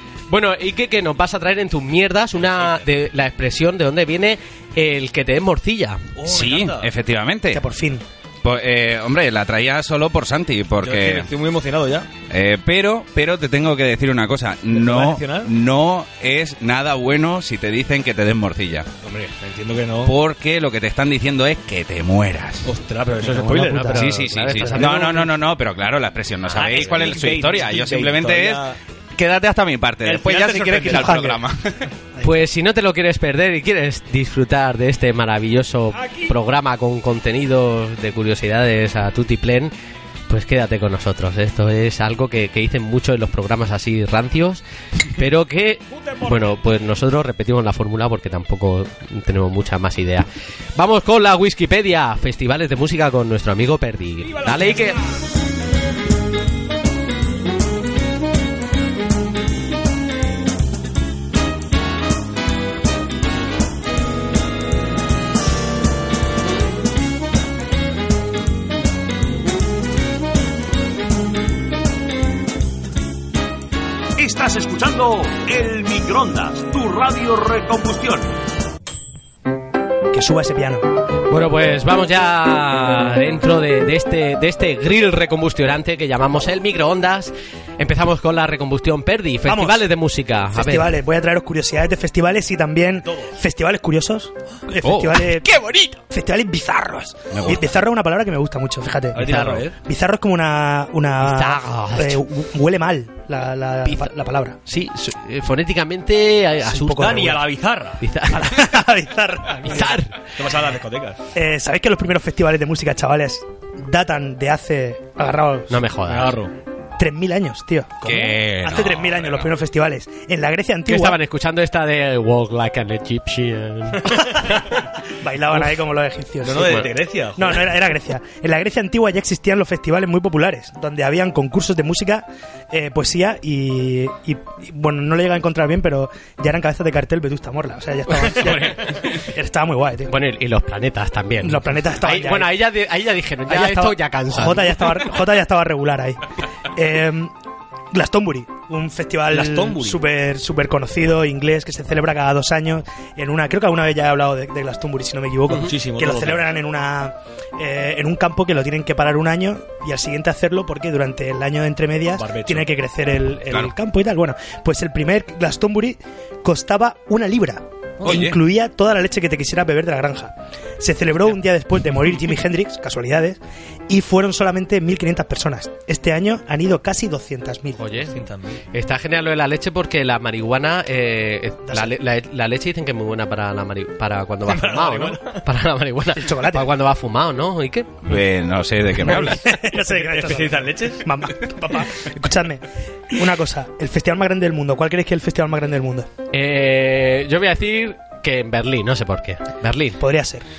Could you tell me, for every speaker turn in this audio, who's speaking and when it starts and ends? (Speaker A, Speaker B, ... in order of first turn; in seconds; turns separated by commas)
Speaker A: 0.3-6.1, Speaker B: 6.2-6.9, Speaker C: 6.3-7.6, Speaker D: 7.5-8.1, Speaker C: 8.4-11.3, Speaker B: 10.8-12.1, Speaker C: 12.3-18.9, Speaker B: 14.7-15.5, Speaker B: 19.0-20.1, Speaker C: 20.1-22.7, Speaker B: 22.6-24.0, Speaker D: 23.2-25.2, Speaker A: 23.6-25.3, Speaker C: 23.9-28.6, Speaker B: 26.5-28.8, Speaker A: 26.6-27.1, Speaker C: 29.2-31.7, Speaker B: 30.0-31.4, Speaker D: 30.9-31.4, Speaker A: 32.2-39.7, Speaker B: 36.0-36.3, Speaker A: 40.3-55.0, Speaker B: 45.9-46.6, Speaker B: 54.2-55.0, Speaker E: 74.2-78.4, Speaker D: 80.1-80.9, Speaker A: 81.3-90.9, Speaker D: 89.5-89.8, Speaker D: 90.5-95.5, Speaker C: 94.8-95.3, Speaker A: 95.5-96.0, Speaker D: 96.1-104.6, Speaker C: 97.3-97.7, Speaker B: 99.2-99.8, Speaker A: 99.2-99.7, Speaker A: 101.2-102.2, Speaker A: 104.7-107.4, Speaker D: 106.6-107.4, Speaker B: 107.0-108.0, Speaker A: 108.0-108.7, Speaker D: 108.3-110.0, Speaker A: 109.6-110.2, Speaker B: 110.3-111.2, Speaker D: 111.3-115.8, Speaker A: 115.7-116.4, Speaker B: 116.1-116.5, Speaker D: 117.0-121.2, Speaker C: 118.0-119.5, Speaker A: 120.9-124.6, Speaker D: 125.1-140.1, Speaker B: 126.4-127.7, Speaker A: 140.1-145.0, Speaker D: 141.4-142.6, Speaker D: 143.5-147.3, Speaker D: 147.9-177.8, Speaker B: 149.3-150.0, Speaker B: 155.5-156.5, Speaker B: 162.2-162.7, Speaker B: 168.0-168.3, Speaker C: 168.1-168.4, Speaker A: 177.8-178.1, Speaker B: 178.1-178.6, Speaker A: 178.7-188.0, Speaker D: 181.7-182.0, Speaker B: 184.5-185.4, Speaker D: 186.2-186.7, Speaker C: 188.0-189.5, Speaker D: 189.0-196.1, Speaker B: 189.8-191.1, Speaker A: 196.3-200.0, Speaker D: 200.0-200.5